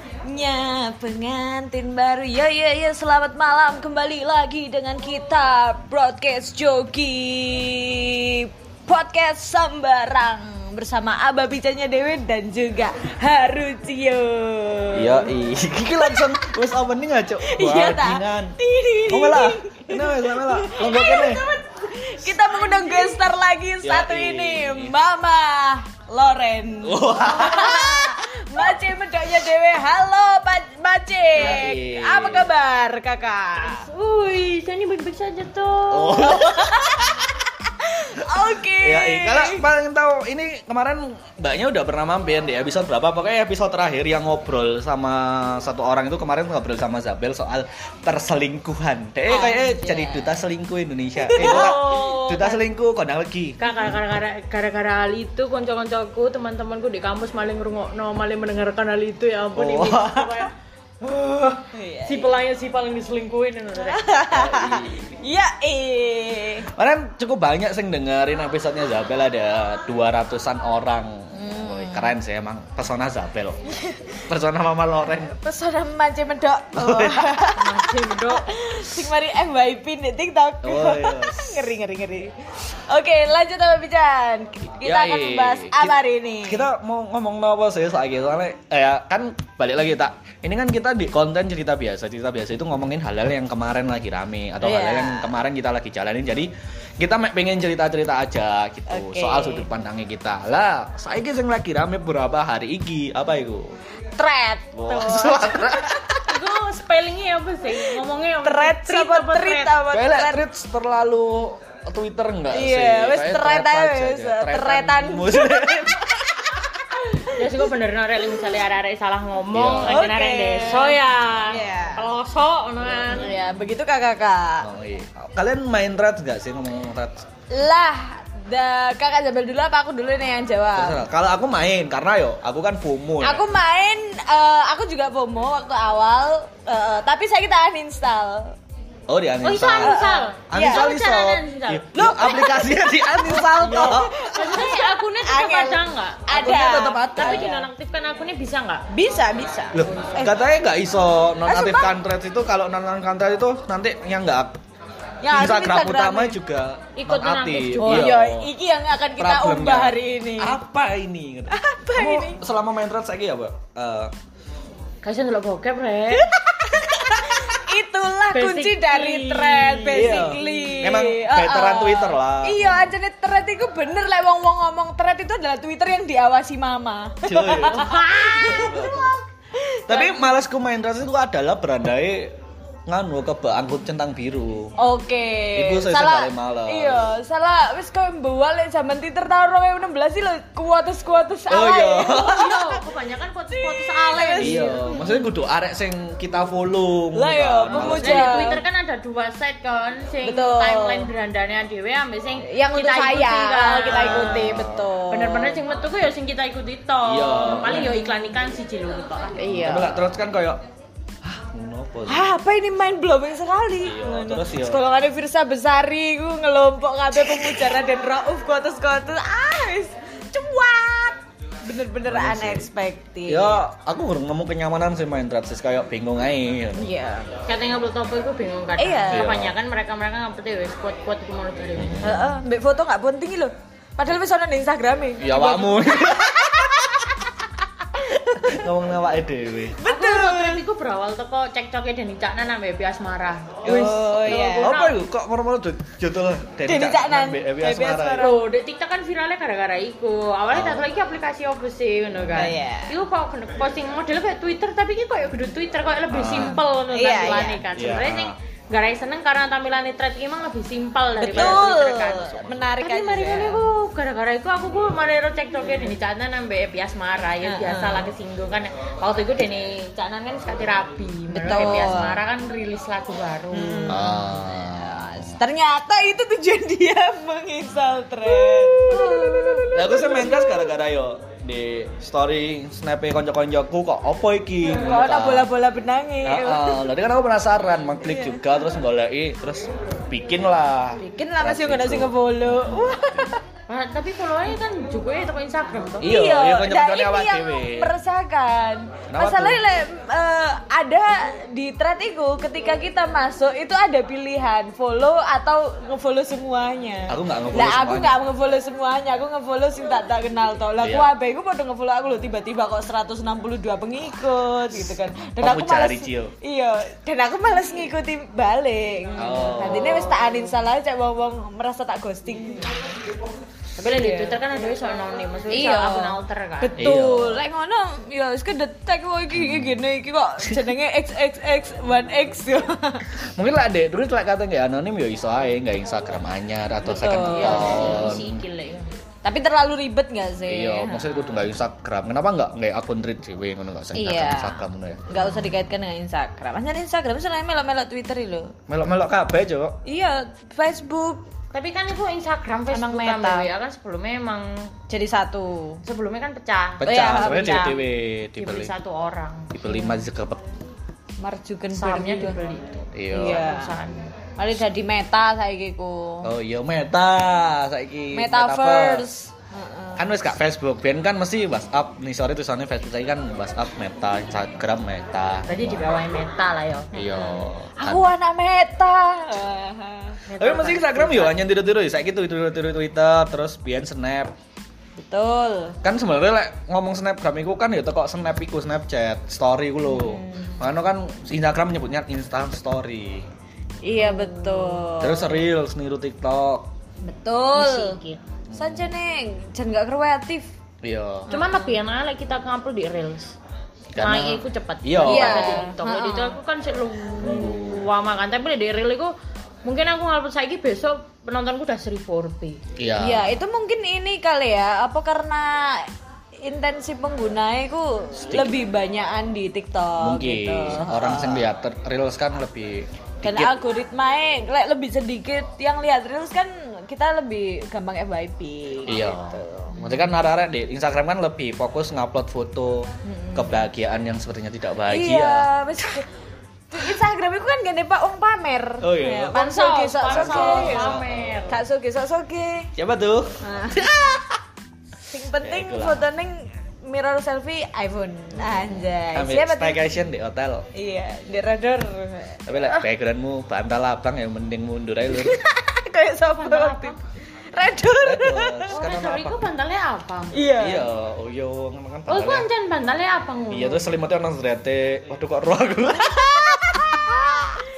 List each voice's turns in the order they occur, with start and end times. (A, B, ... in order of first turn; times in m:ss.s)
0:00.2-0:15.3 A
0:14.9-0:21.4 B
0:16.0-0:16.3 A
0:17.4-0:33.8 A
0:22.5-0:23.2 C
0:23.8-0:25.0 B
0:26.8-0:28.2 B
0:31.4-0:32.5 B
0:33.7-0:36.4 C
0:35.9-0:37.4 B
0:36.4-0:37.0 A
0:37.8-0:39.6 A
0:38.4-0:53.6 B
0:49.3-0:50.3 A
0:51.2-0:52.0 A
0:51.4-0:52.6 C
0:53.6-1:04.0 C
0:59.6-1:00.4 B
1:01.7-1:02.3 A
1:03.8-1:06.7 A
1:04.3-1:05.2 B
1:06.7-1:13.6 B
1:11.3-1:12.2 A
1:13.7-1:14.2 A
1:14.3-1:15.3 B
1:15.3-1:26.7 A
1:16.7-1:17.5 B
1:17.6-1:18.4 C
1:20.6-1:21.7 B
1:24.8-1:43.8 B
1:34.6-1:35.3 A
1:38.9-1:39.7 A
1:44.2-1:45.6 A
1:44.8-1:46.3 B
1:44.9-1:45.4 C
1:46.2-1:49.8 C
1:48.4-1:50.4 A
1:49.9-1:56.7 B
1:52.5-1:56.1 A
1:57.1-1:57.5 A
1:57.1-2:03.3 C
1:59.5-2:00.0 B
1:59.8-2:02.1 A
2:02.8-2:03.2 B
2:03.1-2:04.7 A
2:04.6-2:07.3 B
2:07.5-2:11.0 A
2:10.7-2:13.4 B
2:13.2-2:18.6 A
2:19.1-2:24.6 B
2:19.4-2:21.9 C
2:19.7-2:20.9 A
2:21.9-2:27.7 A
2:23.6-2:26.5 C
2:26.3-2:27.5 B
2:27.2-2:28.8 C
2:28.9-2:30.4 A
2:29.7-2:34.6 B
2:31.5-2:31.9 A
2:35.2-2:36.4 A
2:35.3-2:38.5 B
2:37.0-2:38.1 C
2:37.8-2:40.6 A
2:39.2-2:44.1 B
2:41.5-2:42.4 A
2:45.0-2:46.3 C
2:46.1-3:00.3 A
2:48.3-2:50.5 C
2:49.9-2:52.8 B
2:57.2-2:59.2 B
2:57.8-2:58.6 C
2:59.9-3:04.8 B
3:04.8-3:12.5 A
3:05.6-3:07.1 B
3:11.5-3:12.8 B
3:12.0-3:14.6 C
3:13.5-3:15.3 A
3:14.4-3:18.6 B
3:17.2-3:18.6 A
3:17.7-3:29.4 C
3:20.2-3:21.1 A
3:22.4-3:25.6 A
3:23.9-3:24.9 B
3:27.0-3:28.0 B
3:27.7-3:28.2 A
3:29.4-3:30.1 A
3:29.4-3:30.6 B
3:31.2-3:32.3 B
3:32.1-3:43.6 A
3:33.8-3:34.8 B
3:42.1-3:42.7 B
3:43.3-3:46.9 B
3:46.8-3:47.4 A
3:47.5-3:52.0 C
3:48.8-3:49.3 A
3:49.1-3:49.6 B
3:51.8-3:52.3 B
3:52.0-3:57.0 A
3:55.2-3:57.3 B
3:58.0-3:58.6 A
3:58.4-3:59.8 B
3:59.8-4:00.6 A
3:59.8-4:03.7 C
4:03.6-4:08.3 B
4:03.6-4:04.8 A
4:04.2-4:05.0 C
4:06.7-4:08.4 A
4:08.2-4:34.0 C
4:10.5-4:10.9 B
4:12.4-4:12.9 A
4:16.1-4:16.6 B
4:16.4-4:17.6 A
4:17.7-4:18.4 B
4:21.2-4:23.6 A
4:21.3-4:22.2 B
4:27.4-4:28.1 A
4:31.3-4:32.2 A
4:31.6-4:32.2 B
4:33.5-4:40.7 A
4:33.8-4:35.3 B
4:38.8-4:39.7 C
4:39.7-4:45.5 B
4:44.7-4:46.8 A
4:46.2-4:53.0 B
4:51.0-4:53.4 A
4:53.7-4:56.1 C
4:56.0-4:57.9 B
4:56.0-5:22.7 A
4:59.1-4:59.6 B
5:07.1-5:08.2 B
5:10.8-5:11.1 B
5:15.4-5:16.3 B
5:19.2-5:20.2 B
5:23.8-5:26.8 C
5:23.9-5:24.4 A
5:25.5-5:33.1 A
5:26.8-5:27.4 B
5:29.3-5:29.7 B
5:33.4-5:38.4 B
5:36.8-5:38.1 A
5:37.3-5:38.9 C
5:39.2-5:41.2 A
5:40.5-5:45.0 B
5:43.9-5:48.5 A
5:48.7-5:49.8 B
5:49.8-5:51.2 A
5:51.5-5:54.7 C
5:52.7-5:53.5 A
5:54.9-5:55.8 A
5:55.8-5:57.7 C
5:56.8-5:58.7 B
5:56.8-5:57.8 A
5:58.4-5:59.5 C
5:59.5-6:00.4 B
5:59.7-5:59.9 A
6:01.2-6:02.4 A
6:01.7-6:04.1 C
6:03.0-6:03.4 B
6:03.1-6:03.7 A
6:04.4-6:06.3 A
6:06.2-6:09.1 B
6:08.1-6:10.1 A
6:10.0-6:15.8 B
6:15.5-6:17.2 C
6:16.9-6:18.1 B
6:17.8-6:20.2 A
6:20.3-6:21.4 C
6:20.4-6:24.3 B
6:25.0-6:25.8 A
6:25.8-6:33.3 B
6:29.9-6:30.5 A
6:33.8-6:35.3 A
6:34.4-6:34.8 C
6:35.0-6:36.7 B
6:37.0-6:38.0 A
6:37.6-6:38.2 C
6:38.5-6:38.9 B
6:38.5-6:40.5 A
6:40.8-6:41.3 B
6:41.3-6:41.7 A
6:41.3-6:43.3 C
6:44.0-6:45.6 B
6:44.0-6:49.1 C
6:45.0-6:46.4 A
6:47.2-6:47.9 B
6:49.6-6:52.6 C
6:52.8-6:53.4 B
6:53.0-6:55.9 A
6:56.4-7:01.4 A
6:58.2-6:58.6 B
7:00.0-7:03.6 B
7:03.2-7:09.8 A
7:08.9-7:15.5 B
7:13.1-7:13.6 A
7:14.9-7:16.1 A
7:16.7-7:21.0 A
7:18.8-7:19.4 B
7:19.3-7:21.6 C
7:20.0-7:21.4 B
7:21.5-7:22.7 A
7:22.8-7:24.4 B
7:23.4-7:23.9 A
7:25.1-7:29.8 A
7:25.4-7:26.0 B
7:29.1-7:30.7 B
7:30.7-7:32.8 A
7:32.5-7:35.4 B
7:35.1-7:37.0 A
7:36.4-7:37.0 C
7:37.5-7:38.7 A
7:38.0-7:39.4 B
7:38.7-7:40.4 C
7:40.3-7:40.9 A
7:40.6-7:42.5 B
7:42.1-7:44.0 C
7:43.5-7:47.6 B